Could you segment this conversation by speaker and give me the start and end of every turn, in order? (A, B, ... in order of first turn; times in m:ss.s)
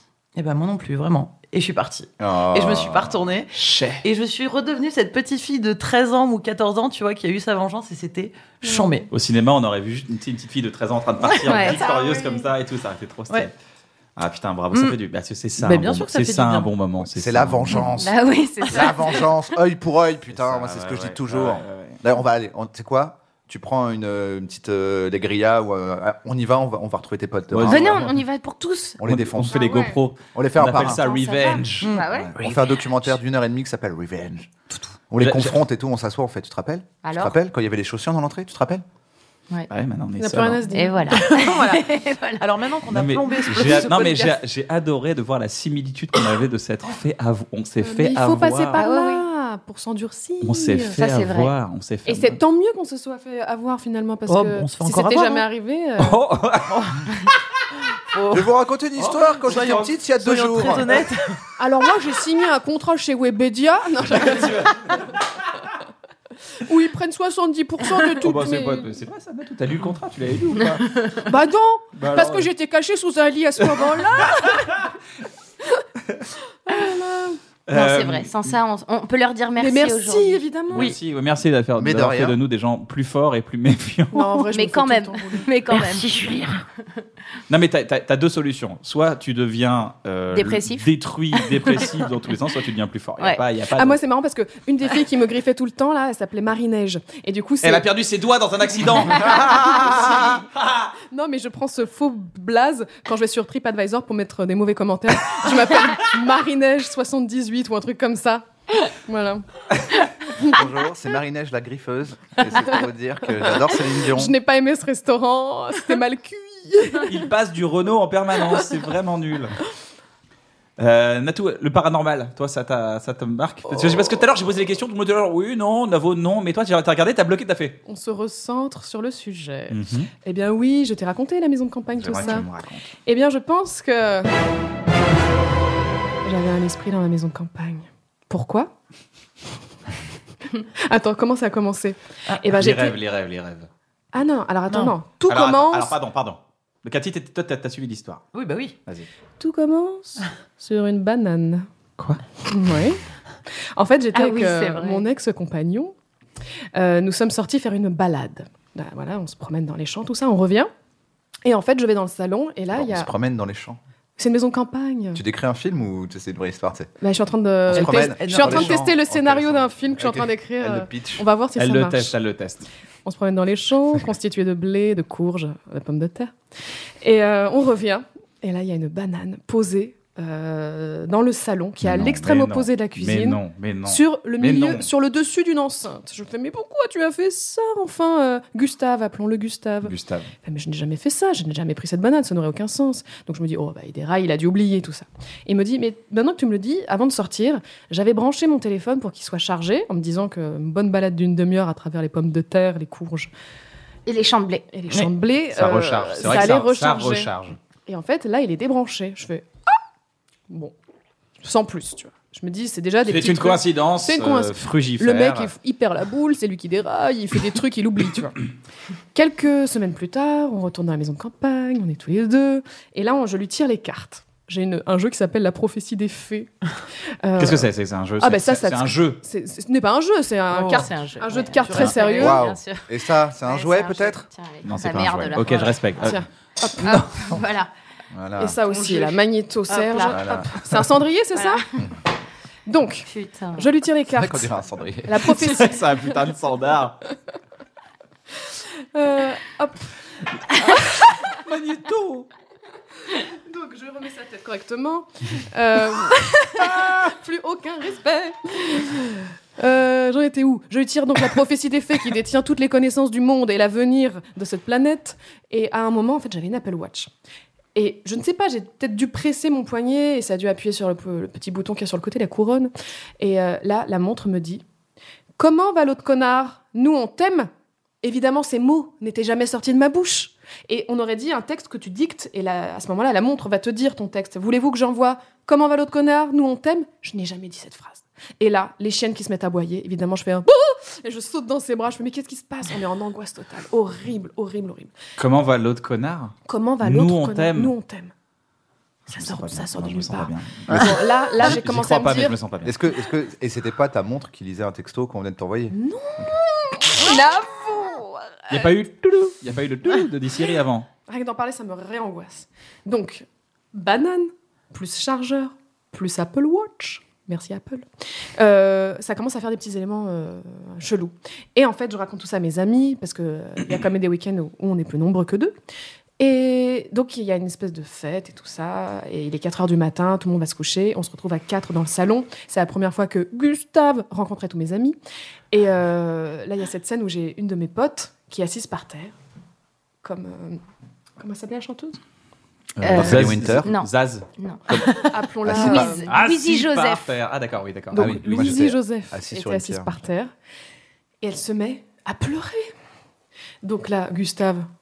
0:00.3-0:09.1 A
0:02.2-0:03.2 B
0:03.5-0:04.0 C
0:08.6-0:09.0 D
0:09.1-0:13.5 C
0:11.3-0:11.8 E
0:14.2-0:17.9 C
0:15.6-0:16.7 A
0:17.1-0:28.1 B
0:18.0-0:19.3 E
0:20.3-0:22.0 C
0:27.5-0:28.2 C
0:27.7-0:29.0 E
0:29.0-0:29.6 B
0:29.0-0:31.9 C
0:29.5-0:30.0 D
0:30.3-0:31.0 B
0:30.8-0:32.6 E
0:31.8-0:32.1 A
0:32.2-0:34.5 B
0:35.1-0:38.8 B
0:35.2-0:35.6 C
0:37.0-0:37.4 E
0:39.7-0:40.6 C
0:40.2-0:41.5 D
0:40.7-0:42.4 E
0:41.2-0:44.4 A
0:42.9-0:48.8 C
0:47.8-0:51.0 D
0:48.7-0:49.2 E
0:50.4-0:52.4 C
0:51.0-0:51.5 E
0:52.0-0:56.2 D
0:54.3-0:55.4 A
0:56.0-0:56.8 C
0:56.7-0:57.1 A
0:58.1-0:58.5 A
0:58.3-1:00.9 B
0:59.0-0:59.8 C
0:59.5-1:01.4 A
1:01.6-1:05.0 D
1:04.1-1:05.1 C
1:06.6-1:08.9 D
1:08.2-1:10.9 C
1:11.2-1:14.9 D
1:11.9-1:12.5 C
1:13.8-1:14.5 C
1:16.6-1:17.4 D
1:17.7-1:18.3 C
1:17.7-1:20.4 E
1:19.6-1:20.9 D
1:20.7-1:24.3 C
1:21.8-1:22.4 B
1:24.1-1:25.5 D
1:24.5-1:26.4 E
1:25.7-1:26.6 A
1:27.5-1:34.0 C
1:30.3-1:30.9 E
1:33.8-1:37.8 D
1:37.6-1:40.9 C
1:39.1-1:40.4 D
1:41.1-1:49.4 D
1:50.5-1:54.3 B
1:53.4-1:57.1 D
1:57.1-1:59.6 C
2:00.8-2:07.8 C
2:03.7-2:04.1 D
2:07.8-2:12.5 D
2:09.7-2:10.1 C
2:12.0-2:12.9 C
2:13.0-2:14.3 D
2:16.2-2:18.7 D
2:20.6-2:23.0 D
2:22.5-2:23.7 C
2:24.1-2:26.0 D
2:24.7-2:24.9 A
2:25.3-2:28.3 C
2:28.3-2:28.8 A
2:29.4-2:31.7 D
2:32.4-2:33.0 D
2:33.8-2:35.9 D
2:34.1-2:35.0 E
2:36.7-2:40.7 D
2:41.4-2:43.1 D
2:42.7-2:43.8 B
2:44.2-2:45.2 D
2:45.1-2:46.9 B
2:47.0-2:52.1 D
2:47.7-2:51.2 B
2:47.7-2:48.8 A
2:51.6-2:52.7 C
2:53.0-2:56.4 D
2:57.0-3:23.3 D
3:01.8-3:04.9 C
3:09.8-3:10.3 C
3:24.0-3:24.6 E
3:24.7-3:27.3 D
3:25.5-3:27.6 C
3:27.8-3:29.5 D
3:31.4-3:38.5 D
3:33.0-3:35.5 C
3:39.1-3:46.5 D
3:47.2-3:47.7 D
3:47.4-3:49.2 C
3:48.2-3:52.4 D
3:50.5-3:50.9 A
3:50.7-3:56.1 E
3:52.1-3:54.2 B
3:54.6-3:56.2 C
3:56.0-3:57.0 D
3:56.8-3:57.3 B
3:56.9-3:57.7 E
3:58.1-3:58.6 B
3:58.4-4:01.6 D
3:58.7-4:00.5 E
4:00.1-4:00.5 B
4:01.3-4:01.6 E
4:02.7-4:06.1 D
4:03.1-4:03.7 E
4:04.1-4:05.3 B
4:05.3-4:07.0 C
4:08.9-4:09.9 D
4:10.5-4:11.1 D
4:11.4-4:12.3 C
4:13.3-4:27.1 D
4:27.7-4:34.6 D
4:35.4-4:37.5 D
4:38.0-4:54.9 D
4:55.2-4:57.7 C
4:56.5-4:58.1 D
4:59.1-5:02.4 D
4:59.1-5:02.7 C
5:00.7-5:01.0 B
5:02.6-5:06.3 B
5:05.7-5:08.7 D
5:08.5-5:10.9 C
5:11.1-5:17.9 D
5:18.4-5:25.5 D
5:26.2-5:35.0 D
5:35.5-5:39.1 D
5:40.0-5:40.6 D
5:41.2-5:42.0 D
5:42.8-5:44.2 C
5:42.8-5:47.1 E
5:42.8-5:43.7 B
5:45.1-5:46.1 D
5:45.5-5:45.8 B
5:45.5-5:48.2 C
5:47.9-5:50.3 D
5:47.9-5:49.9 B
5:51.2-5:52.7 D
5:53.6-5:54.7 D